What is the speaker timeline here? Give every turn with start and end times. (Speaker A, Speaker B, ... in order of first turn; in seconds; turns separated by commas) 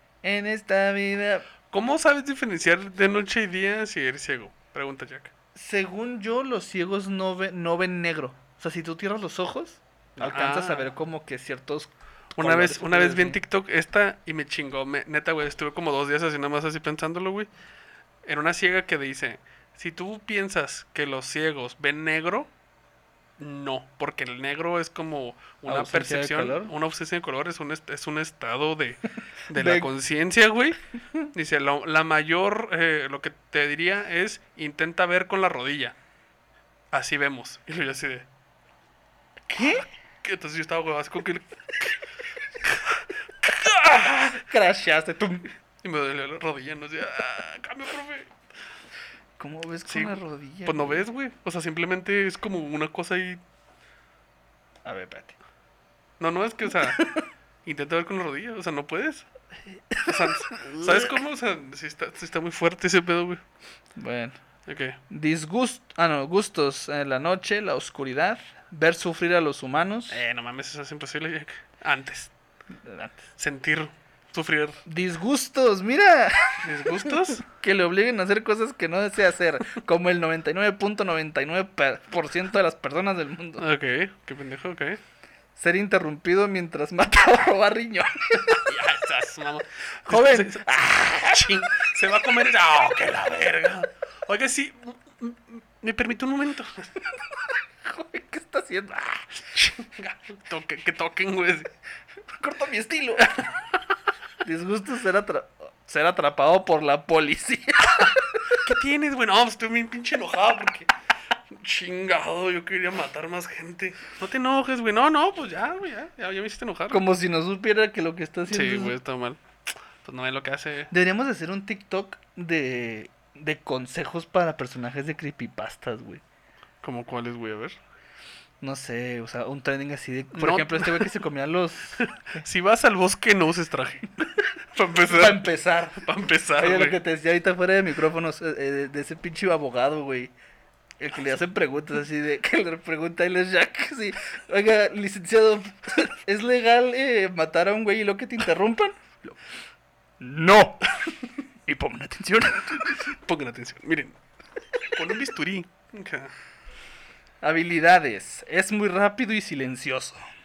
Speaker A: 0.2-1.5, Speaker B: 1.7-5.3, Speaker A: 5.5-13.4, Speaker B: 10.2-10.9, Speaker B: 12.4-17.5, Speaker B: 18.2-22.5, Speaker B: 23.4-30.8, Speaker A: 25.7-26.7, Speaker A: 29.6-29.9, Speaker B: 31.3-36.0, Speaker B: 36.9-38.3, Speaker A: 39.5-39.9, Speaker B: 40.2-42.0, Speaker B: 42.6-44.3, Speaker A: 43.8-45.5, Speaker B: 45.8-48.3, Speaker A: 49.4-51.0, Speaker B: 49.9-53.4, Speaker A: 54.9-55.4, Speaker B: 56.2-57.1, Speaker A: 57.0-57.2, Speaker B: 57.7-59.3, Speaker A: 59.9-60.9, Speaker B: 60.1-63.4, Speaker A: 64.0-64.4, Speaker B: 64.7-65.0, Speaker A: 65.1-70.2, Speaker B: 70.1-72.3, Speaker A: 72.8-73.2, Speaker B: 73.4-74.8, Speaker A: 74.9-83.6, Speaker B: 76.6-77.4, Speaker B: 83.6-85.0, Speaker A: 85.6-88.6, Speaker B: 88.5-97.0, Speaker A: 90.1-91.5, Speaker A: 97.8-99.3, Speaker B: 99.5-101.7, Speaker A: 102.3-103.5, Speaker A: 104.4-108.4, Speaker B: 108.6-110.9, Speaker B: 111.5-117.0, Speaker A: 116.9-119.0, Speaker B: 118.5-120.9, Speaker A: 120.9-126.2, Speaker B: 126.8-127.8, Speaker A: 128.6-132.4, Speaker B: 130.3-131.2, Speaker B: 132.0-134.2, Speaker B: 134.7-137.0, Speaker A: 135.1-136.1, Speaker A: 136.6-140.3, Speaker A: 141.0-149.4, Speaker A: 150.2-150.9, Speaker A: 151.7-153.0, Speaker B: 153.1-154.2, Speaker B: 154.9-156.3, Speaker A: 157.4-160.2